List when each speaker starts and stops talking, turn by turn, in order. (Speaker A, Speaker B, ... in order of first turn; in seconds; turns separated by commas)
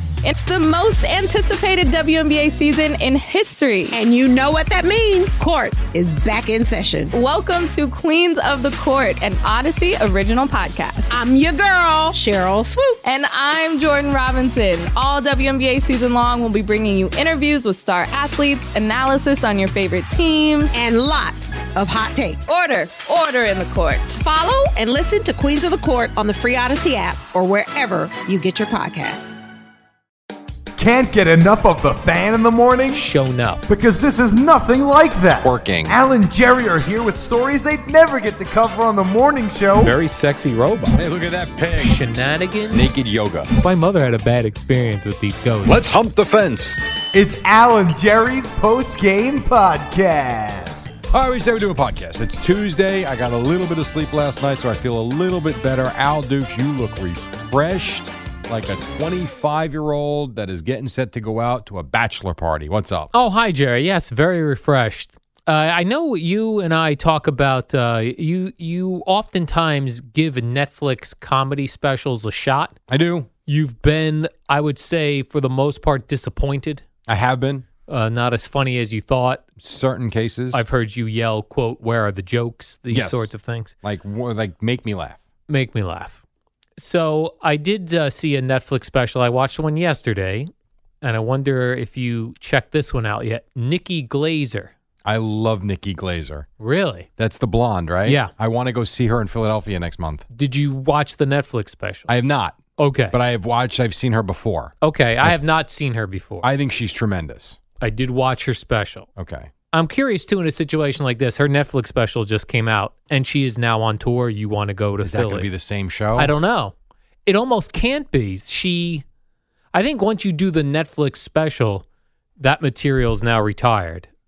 Speaker A: 0.2-3.9, Speaker B: 3.9-7.1, Speaker A: 7.1-11.1, Speaker B: 11.1-13.1, Speaker A: 13.0-20.7, Speaker B: 20.7-22.4, Speaker A: 22.5-24.2, Speaker B: 24.2-29.4, Speaker C: 30.8-33.1, Speaker D: 32.9-33.6, Speaker C: 33.7-39.9, Speaker E: 35.4-36.0, Speaker D: 39.8-41.0, Speaker E: 40.9-42.0, Speaker D: 41.8-42.9, Speaker E: 42.7-43.5, Speaker D: 43.6-45.8, Speaker E: 45.6-46.8, Speaker C: 47.1-50.9, Speaker E: 51.1-63.1, Speaker D: 63.1-72.8, Speaker E: 72.9-73.3, Speaker D: 73.5-76.8, Speaker E: 77.1-77.7, Speaker D: 77.9-79.4, Speaker E: 79.6-80.6, Speaker D: 80.5-83.7, Speaker E: 82.9-83.3, Speaker E: 83.8-85.2, Speaker D: 85.5-86.2, Speaker D: 86.8-90.5, Speaker D: 91.0-94.7, Speaker E: 95.0-96.5, Speaker D: 96.6-97.1, Speaker E: 97.2-100.2, Speaker D: 98.0-98.3, Speaker D: 100.3-102.1, Speaker E: 102.1-105.4, Speaker D: 102.8-103.2, Speaker D: 104.8-106.5, Speaker E: 106.4-107.6, Speaker D: 107.8-109.1, Speaker E: 109.2-109.5, Speaker D: 109.7-115.5, Speaker E: 115.0-116.3, Speaker D: 116.2-116.7, Speaker D: 117.2-119.0, Speaker D: 119.7-121.8, Speaker D: 122.4-124.1